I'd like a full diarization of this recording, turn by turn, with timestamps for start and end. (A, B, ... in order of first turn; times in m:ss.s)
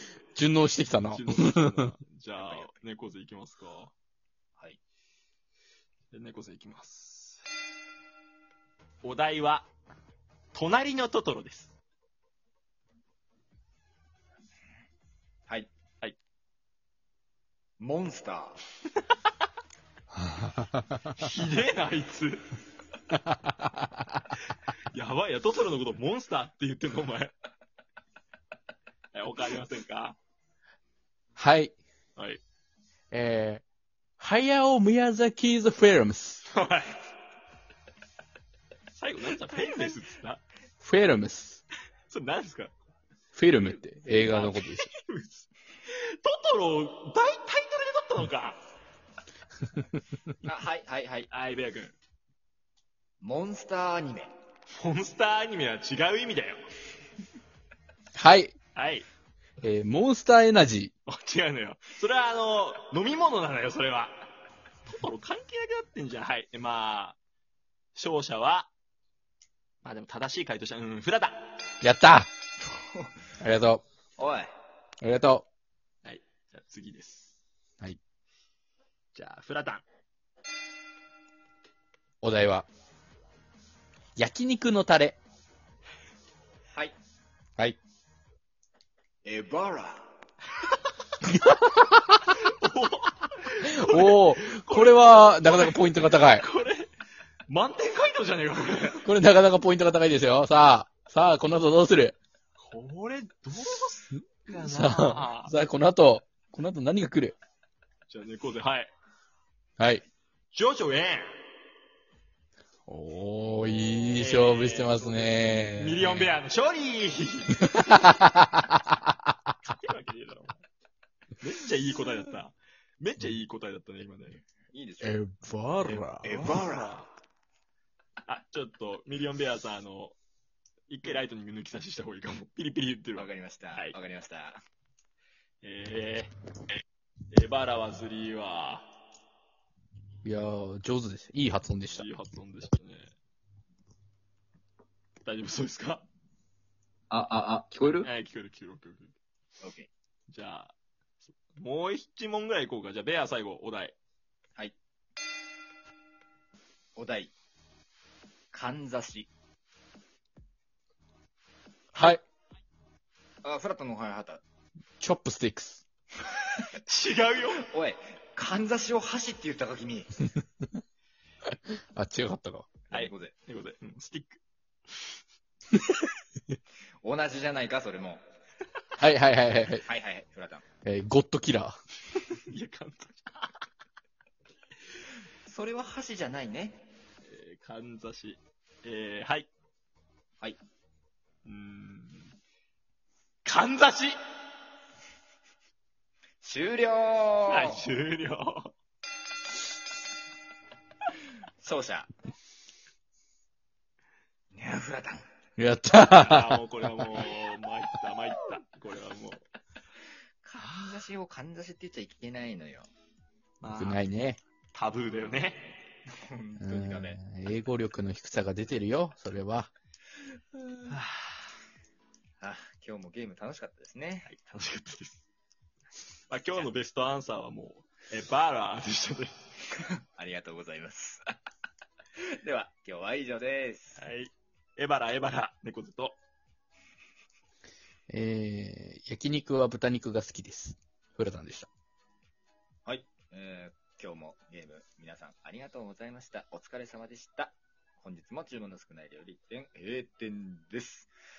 0:00.3-0:01.9 A
0:01.1-0:03.9 B
0:02.4-0:02.7 C
0:06.1-0:07.4 B
0:09.0-0:09.7 B
0:10.5-0:11.7 B
0:17.8-0:18.6 C
0:20.2-0:21.0 A
0:21.1-0:22.4 B
0:23.1-0:23.9 A
0:24.9-0:27.3 B
0:29.1-0:30.2 B
0:31.4-0:31.8 A
0:32.2-0:32.4 B
0:33.1-0:33.6 A
0:34.2-0:36.4 A
0:36.5-0:37.0 B
0:38.9-0:40.4 B
0:40.8-0:41.6 A
0:42.1-0:42.7 B
0:43.3-0:44.9 A
0:43.6-0:48.6 B
0:50.4-0:51.3 C
0:51.3-0:51.9 B
0:53.2-0:54.3 C
0:54.7-0:56.6 B
0:58.1-0:58.5 A
0:58.7-0:59.0 B
0:59.6-1:00.9 A
1:01.0-1:04.3 B
1:04.8-1:07.2 B
1:07.9-1:08.7 B
1:09.8-1:11.5 B
1:11.8-1:12.3 A
1:12.6-1:13.3 C
1:13.4-1:13.8 A
1:14.2-1:14.5 C
1:15.0-1:15.4 A
1:16.0-1:17.3 B
1:19.1-1:19.8 B
1:22.2-1:22.7 A
1:24.2-1:25.2 A
1:29.2-1:30.1 C
1:31.2-1:32.2 A
1:32.3-1:36.9 B
1:33.6-1:36.4 A
1:37.5-1:39.1 B
1:39.0-1:42.2 A
1:42.6-1:45.5 B
1:44.5-1:47.4 A
1:48.1-1:48.9 B
1:49.8-1:50.0 A
1:50.5-1:51.4 B
1:52.9-1:56.3 A
1:54.2-1:58.0 B
1:57.6-1:58.9 A
1:59.7-2:00.6 B
2:01.4-2:04.4 B
2:04.7-2:05.2 C
2:05.0-2:06.6 A
2:06.2-2:07.0 C
2:06.4-2:07.1 B
2:08.2-2:10.2 B
2:10.9-2:14.0 B
2:13.2-2:14.6 C
2:15.6-2:16.3 B
2:17.3-2:18.9 B
2:20.2-2:22.1 A
2:21.9-2:23.1 B
2:25.2-2:26.0 B
2:27.1-2:28.1 C
2:28.0-2:29.2 B
2:29.6-2:29.9 C
2:30.3-2:30.7 B
2:31.5-2:34.0 B
2:37.0-2:37.3 C
2:38.5-2:39.3 C
2:41.9-2:42.2 A
2:43.4-2:44.4 C
2:45.0-2:45.8 A
2:46.8-2:47.6 B
2:47.5-2:50.2 C
2:51.7-2:52.7 A
2:52.9-2:53.3 C
2:52.9-2:54.4 B
2:57.0-2:58.2 C
2:59.0-2:59.8 A
2:59.8-3:00.6 C
3:00.8-3:01.8 A
3:02.1-3:03.6 B
3:05.4-3:06.8 C
3:07.2-3:09.5 B
3:11.4-3:12.3 B
3:13.4-3:14.2 B
3:16.4-3:17.8 C
3:17.5-3:18.7 B
3:21.6-3:22.1 C
3:24.5-3:25.2 C
3:25.6-3:27.0 A
3:26.0-3:29.4 B
3:30.4-3:32.9 C
3:33.6-3:34.0 B
3:33.7-3:34.4 A
3:34.7-3:35.7 B
3:36.2-3:37.2 C
3:36.6-3:39.7 A
3:40.9-3:41.4 B
3:42.4-3:44.3 C
3:44.2-3:45.2 B
3:46.3-3:49.3 B
3:49.7-3:51.2 C
3:52.2-3:54.0 C
3:54.0-3:56.2 B
3:58.1-4:01.7 A
4:02.8-4:11.1 C